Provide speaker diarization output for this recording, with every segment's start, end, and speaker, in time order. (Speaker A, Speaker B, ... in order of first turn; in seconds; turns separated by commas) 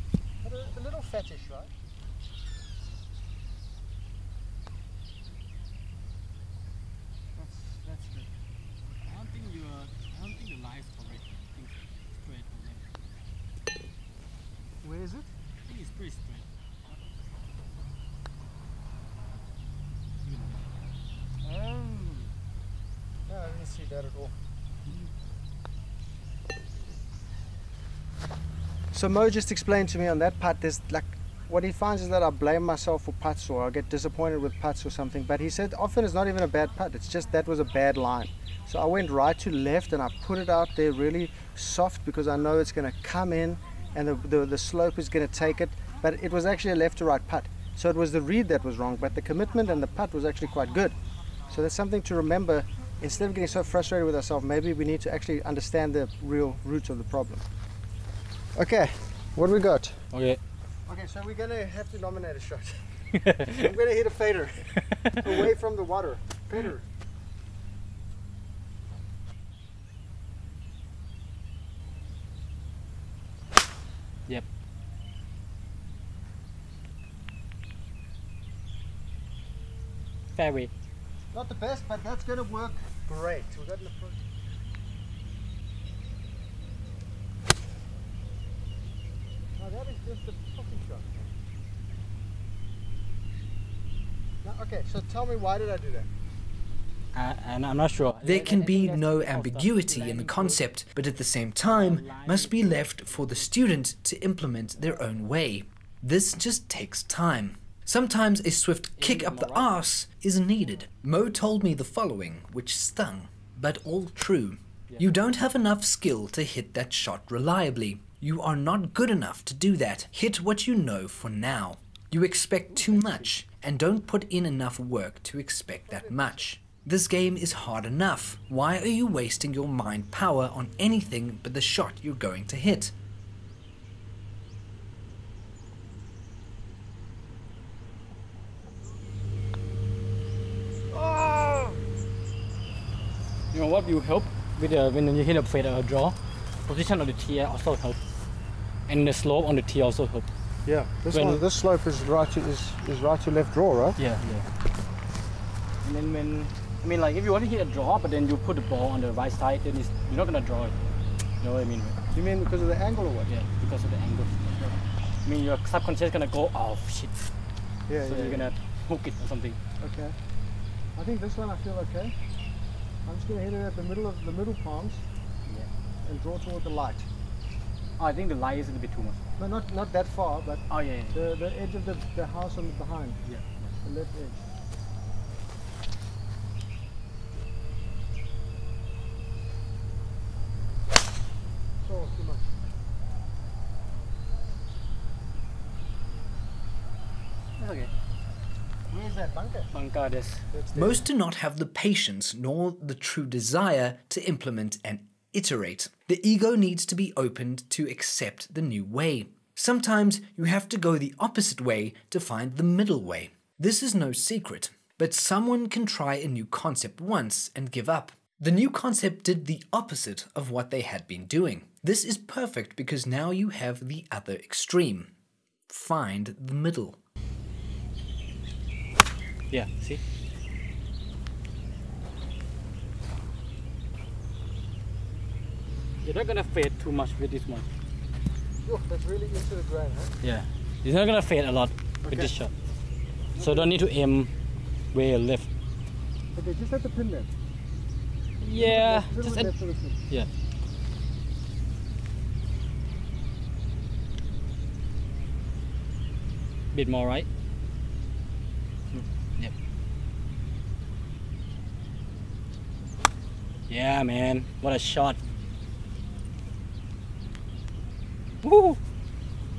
Speaker A: 0.4-1.7, Speaker A: 7.3-8.3, Speaker B: 9.0-12.9, Speaker A: 14.8-15.3, Speaker B: 15.7-16.5, Speaker B: 20.2-20.7, Speaker A: 21.4-22.3, Speaker A: 23.3-24.3, Speaker A: 28.9-51.0, Speaker A: 51.5-57.4, Speaker A: 58.5-60.0, Speaker B: 60.1-60.4, Speaker A: 60.9-66.8, Speaker B: 63.2-63.6, Speaker B: 80.3-80.7, Speaker A: 81.3-84.2, Speaker A: 89.6-91.3, Speaker A: 94.4-96.1, Speaker B: 97.1-100.6, Speaker C: 98.2-132.9, Speaker B: 101.7-103.5, Speaker B: 109.0-109.7, Speaker B: 122.7-123.3, Speaker A: 125.8-126.5, Speaker A: 140.9-141.8, Speaker B: 143.5-148.0, Speaker B: 148.9-150.3, Speaker A: 150.6-154.0, Speaker B: 151.1-151.4, Speaker B: 154.0-154.5, Speaker B: 155.8-160.7, Speaker B: 161.4-161.9, Speaker A: 162.1-163.3, Speaker B: 163.3-164.7, Speaker B: 165.2-167.3, Speaker A: 167.9-168.5, Speaker B: 168.0-169.6, Speaker A: 169.8-170.2, Speaker A: 170.9-172.1, Speaker A: 173.1-175.0, Speaker A: 176.0-177.1, Speaker B: 178.0-179.2, Speaker A: 179.4-183.2, Speaker B: 180.7-181.2, Speaker B: 183.2-183.7, Speaker A: 183.8-184.4, Speaker A: 191.8-192.5, Speaker B: 197.6-197.9, Speaker A: 198.9-199.7, Speaker B: 199.7-200.4, Speaker A: 200.5-201.0, Speaker C: 200.7-225.1, Speaker C: 225.7-227.0, Speaker B: 229.5-230.0, Speaker B: 236.0-237.7, Speaker A: 238.6-240.1, Speaker B: 240.2-242.5, Speaker A: 242.0-242.3, Speaker A: 243.3-243.8, Speaker B: 243.3-244.3, Speaker B: 244.9-245.5, Speaker A: 246.3-247.3, Speaker B: 248.4-249.5, Speaker A: 248.5-250.0, Speaker B: 256.7-257.3, Speaker B: 258.9-259.5, Speaker B: 263.7-265.2, Speaker B: 268.4-268.8